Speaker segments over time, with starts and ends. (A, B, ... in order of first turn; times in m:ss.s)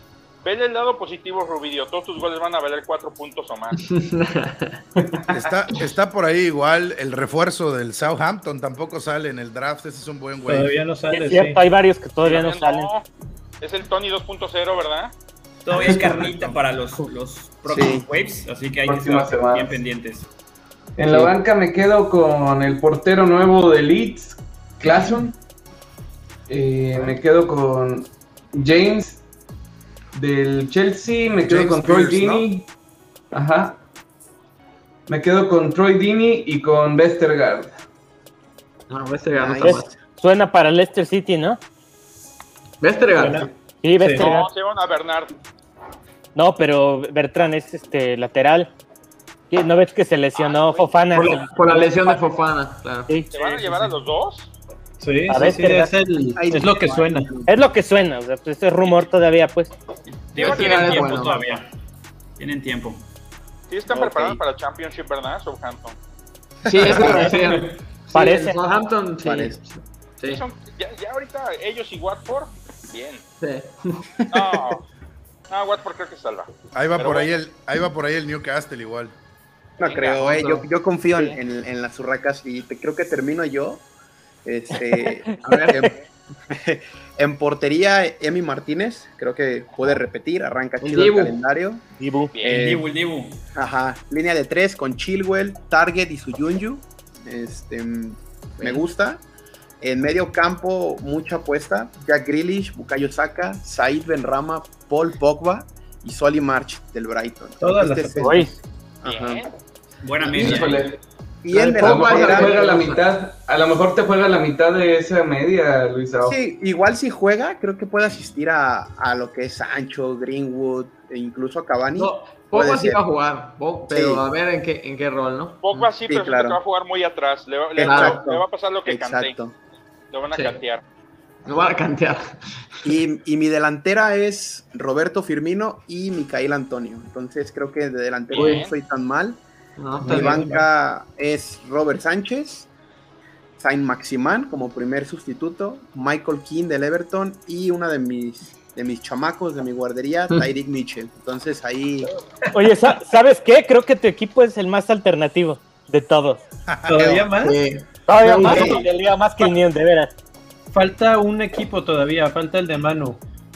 0:00.4-0:03.8 A
0:03.8-0:04.8 B
0:05.0-0:05.3 C
0:05.3-0:10.8 D
0:10.4-0:11.6 E
0:11.1-0:12.9 F
0:12.2-0:13.0 A
0:13.6-0:15.1 A
0:15.6-0:20.3 G
0:15.7-0:16.2 C
0:17.7-0:18.0 H
0:18.8-0:19.8 C
0:21.0-0:25.4 C
0:26.5-0:29.2 C
0:30.1-0:32.7 C
0:31.5-0:32.4 D
0:31.5-0:32.4 H
0:33.3-0:33.8 C
0:35.1-0:37.7 C
0:38.9-0:39.9 B
0:39.3-0:39.9 H
0:39.6-0:41.6 F
0:42.8-0:43.5 B
0:43.2-0:44.2 E
0:43.8-0:44.5 F
0:44.2-0:45.3 A
0:46.3-0:48.7 F
0:49.5-0:52.1 F
0:50.4-0:50.9 A
0:51.1-0:53.2 B
0:53.3-0:54.5 A
0:55.0-0:57.3 E
0:55.3-0:55.9 F
0:56.4-0:57.6 H
0:57.4-0:59.7 F
1:00.3-1:01.7 G
1:00.4-1:01.6 B
1:00.4-1:01.3 A
1:02.4-1:03.0 G
1:03.7-1:06.0 A
1:03.9-1:04.4 H
1:06.6-1:07.4 H
1:06.6-1:10.4 B
1:06.9-1:07.7 C
1:08.1-1:08.6 F
1:09.2-1:09.6 H
1:10.2-1:13.2 A
1:13.4-1:14.1 B
1:14.3-1:14.8 A
1:14.3-1:14.6 H
1:15.5-1:17.3 A
1:16.7-1:19.1 D
1:19.8-1:23.8 H
1:19.8-1:20.2 A
1:20.2-1:21.4 B
1:24.4-1:26.0 H
1:25.0-1:25.9 F
1:25.4-1:25.8 B
1:26.5-1:31.8 H
1:30.8-1:31.3 B
1:32.0-1:32.3 F
1:32.3-1:32.7 A
1:32.4-1:32.9 H
1:32.4-1:33.4 G
1:33.5-1:39.2 H
1:38.6-1:38.8 B
1:39.8-1:49.4 H
1:47.6-1:48.5 E
1:48.2-1:48.5 F
1:49.0-1:49.5 A
1:50.0-1:50.9 G
1:50.2-1:51.0 C
1:50.2-1:50.6 H
1:51.4-1:52.6 H
1:51.5-1:53.0 B
1:51.8-1:56.4 C
1:56.2-2:03.0 H
2:02.0-2:05.9 B
2:03.9-2:04.2 H
2:05.6-2:09.4 A
2:06.1-2:06.6 H
2:07.8-2:09.5 H
2:07.8-2:08.3 B
2:10.1-2:10.8 A
2:10.3-2:10.6 B
2:11.4-2:12.9 B
2:12.8-2:19.4 H
2:18.3-2:18.7 A
2:18.3-2:18.6 B
2:19.8-2:20.6 B
2:20.0-2:20.6 E
2:20.0-2:22.7 H
2:23.6-2:32.1 H
2:32.5-2:36.4 F
2:36.7-2:37.2 D
2:36.8-2:37.5 E
2:37.4-2:38.8 B
2:38.1-2:40.1 F
2:38.4-2:38.9 H
2:40.7-2:43.2 E